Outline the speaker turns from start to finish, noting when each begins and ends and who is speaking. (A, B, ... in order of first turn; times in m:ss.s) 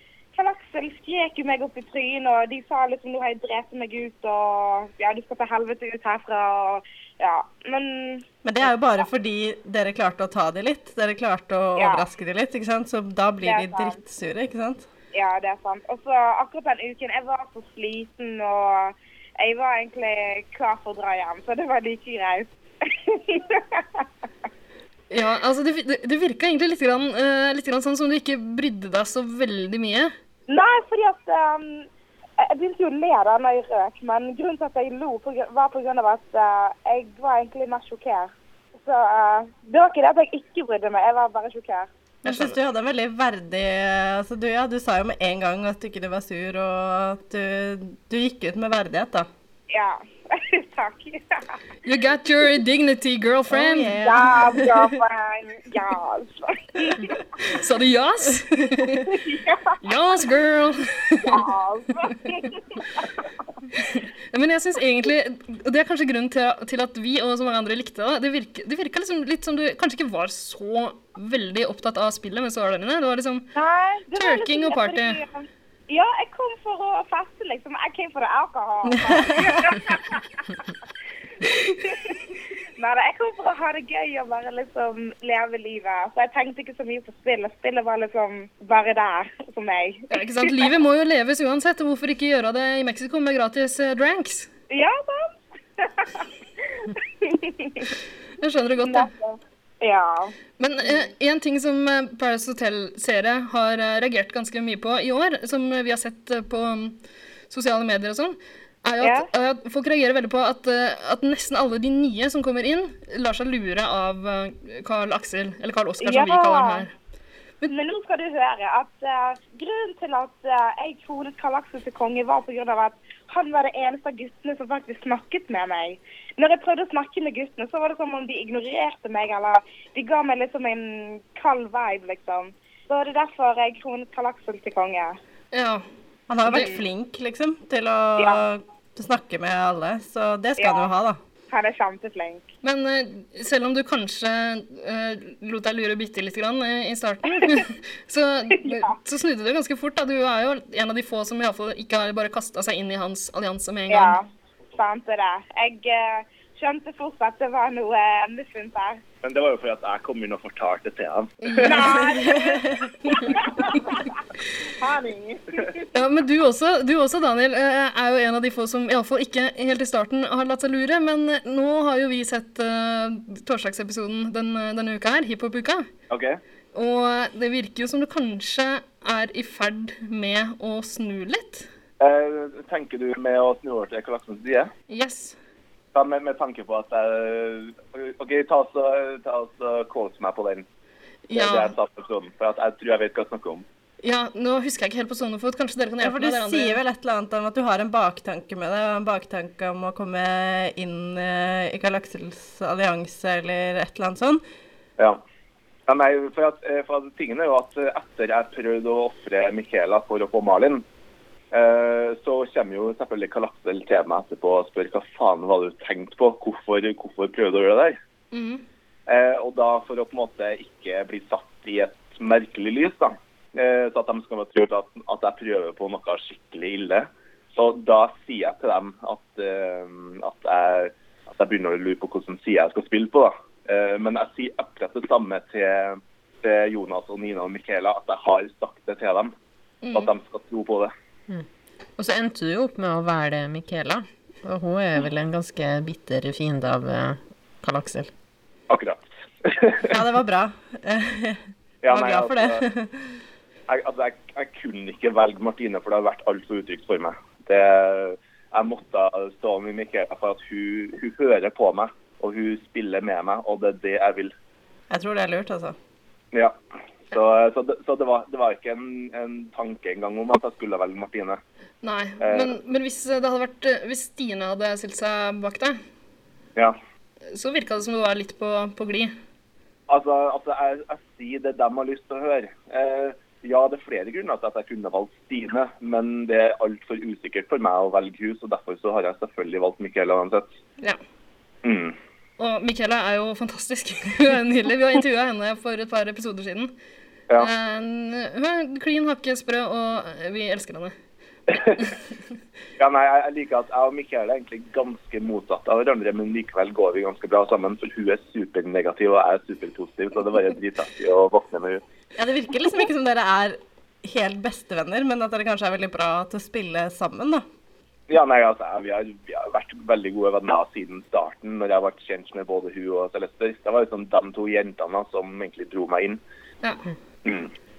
0:00.4-0:09.0 A
0:08.4-0:14.9 B
0:11.8-0:12.0 A
0:13.4-0:14.0 A
0:15.1-0:24.0 A
0:25.1-0:30.1 C
0:30.5-0:31.9 A
0:32.4-0:41.9 A
0:42.2-0:42.6 C
0:42.2-0:49.3 B
0:49.7-0:51.4 A
0:51.8-0:54.0 C
0:53.5-0:55.0 B
0:54.0-0:57.2 A
0:57.5-0:59.1 C
0:59.0-0:59.8 A
0:59.8-1:01.4 C
1:01.2-1:03.1 A
1:03.8-1:13.5 C
1:13.6-1:20.2 A
1:14.2-1:15.2 C
1:19.0-1:19.6 B
1:21.4-1:22.2 A
1:22.8-1:30.7 A
1:30.1-1:34.5 C
1:34.7-1:36.2 A
1:36.8-1:37.9 A
1:38.4-1:39.1 C
1:38.8-1:40.3 A
1:40.6-1:47.0 C
1:47.5-1:56.9 C
1:49.0-1:49.3 A
1:56.0-1:56.9 A
1:57.7-2:15.2 A
2:15.5-2:15.8 C
2:16.3-2:21.2 B
2:16.5-2:16.7 C
2:16.5-2:16.8 A
2:20.6-2:20.9 A
2:21.5-2:22.4 A
2:22.6-2:34.2 C
2:28.5-2:29.0 A
2:33.9-2:39.0 A
2:39.2-2:41.8 D
2:41.4-2:42.0 C
2:41.6-2:44.1 A
2:41.8-2:42.9 B
2:44.8-2:45.9 A
2:45.9-2:55.9 C
2:56.1-2:56.4 D
2:56.7-3:01.7 C
3:02.0-3:04.7 D
3:04.9-3:05.4 C
3:06.0-3:10.6 D
3:11.3-3:11.8 C
3:11.3-3:13.6 D
3:14.0-3:16.8 C
3:16.0-3:24.4 B
3:25.9-3:30.8 D
3:31.5-3:38.0 D
3:38.3-3:38.6 C
3:39.1-3:59.3 D
3:59.8-4:00.1 C
3:59.9-4:00.9 D
4:02.0-4:08.1 E
4:08.7-4:10.0 D
4:09.9-4:13.1 B
4:11.8-4:12.6 D
4:13.7-4:24.3 D
4:24.9-4:25.8 B
4:27.1-4:31.4 D
4:31.8-4:35.8 C
4:32.2-4:32.6 D
4:37.3-4:39.1 C
4:39.9-4:50.5 D
4:51.6-4:52.0 D
4:52.4-4:56.7 C
4:57.4-5:01.0 C
5:01.5-5:01.9 D
5:02.8-5:11.8 D
5:12.2-5:17.4 B
5:18.1-5:26.2 D
5:27.2-5:27.5 D